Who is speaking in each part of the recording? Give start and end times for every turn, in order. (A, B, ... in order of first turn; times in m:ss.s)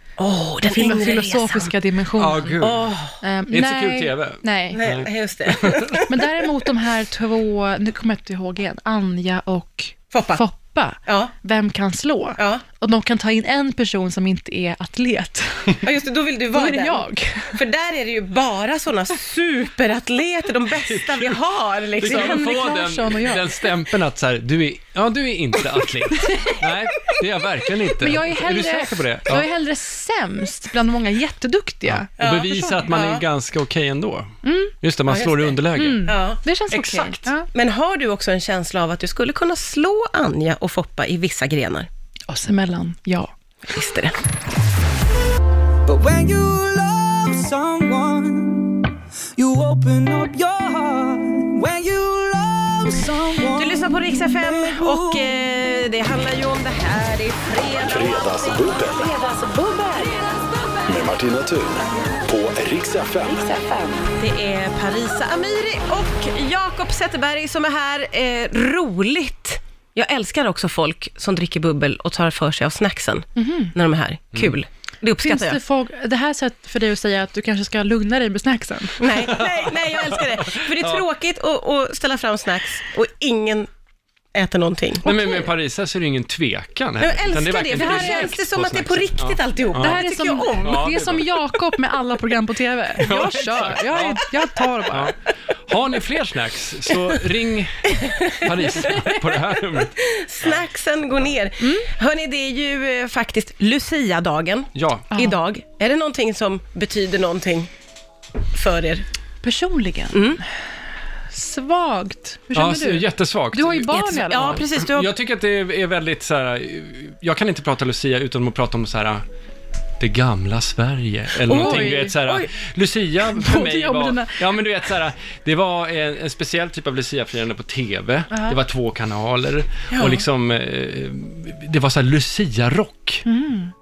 0:00.2-0:01.7 A
0:00.6-0:02.6 B
0:02.2-0:02.9 C
0:02.6-0:03.2 A
0:03.2-0:04.8 B
0:03.5-0:06.0 C
0:04.7-0:06.2 A
0:06.1-0:15.8 B
0:10.1-0:10.4 A
0:11.0-0:11.3 A
0:12.4-0:12.6 A
0:15.8-0:22.5 A
0:16.5-0:17.6 B
0:20.7-0:21.4 C
0:22.0-0:29.4 C
0:22.0-0:23.7 B
0:26.2-0:26.5 B
0:28.0-0:32.9 B
0:31.9-0:36.1 C
0:32.2-0:33.2 A
0:34.4-0:34.7 B
0:35.1-0:36.4 A
0:35.7-0:37.5 B
0:36.7-0:37.3 C
0:37.5-0:41.9 A
0:42.3-0:43.3 B
0:43.7-0:44.2 A
0:45.8-0:48.8 D
0:49.4-0:55.4 D
0:53.5-0:58.8 A
0:57.8-0:59.1 E
0:58.9-1:00.7 D
1:00.9-1:03.5 E
1:03.4-1:04.1 D
1:04.2-1:15.6 A
1:13.4-1:13.7 B
1:15.2-1:19.2 B
1:19.0-1:23.7 A
1:19.3-1:21.0 C
1:24.3-1:25.1 A
1:25.0-1:30.0 C
1:27.0-1:30.8 A
1:27.7-1:28.3 B
1:29.8-1:35.1 B
1:30.6-1:31.2 C
1:33.0-1:34.2 C
1:34.9-1:35.2 C
1:35.7-1:40.6 C
1:38.8-1:39.1 A
1:39.8-1:47.7 A
1:41.6-1:41.9 B
1:44.7-1:45.1 C
1:45.1-1:45.4 B
1:48.5-1:49.0 A
1:49.4-1:50.4 B
1:50.1-1:50.4 A
1:51.3-1:54.7 B
1:52.5-1:59.2 C
1:53.9-1:55.1 A
2:00.0-2:13.2 C
2:01.5-2:02.5 A
2:01.5-2:02.2 B
2:03.3-2:04.4 B
2:08.3-2:08.6 B
2:09.9-2:10.2 A
2:13.2-2:13.7 B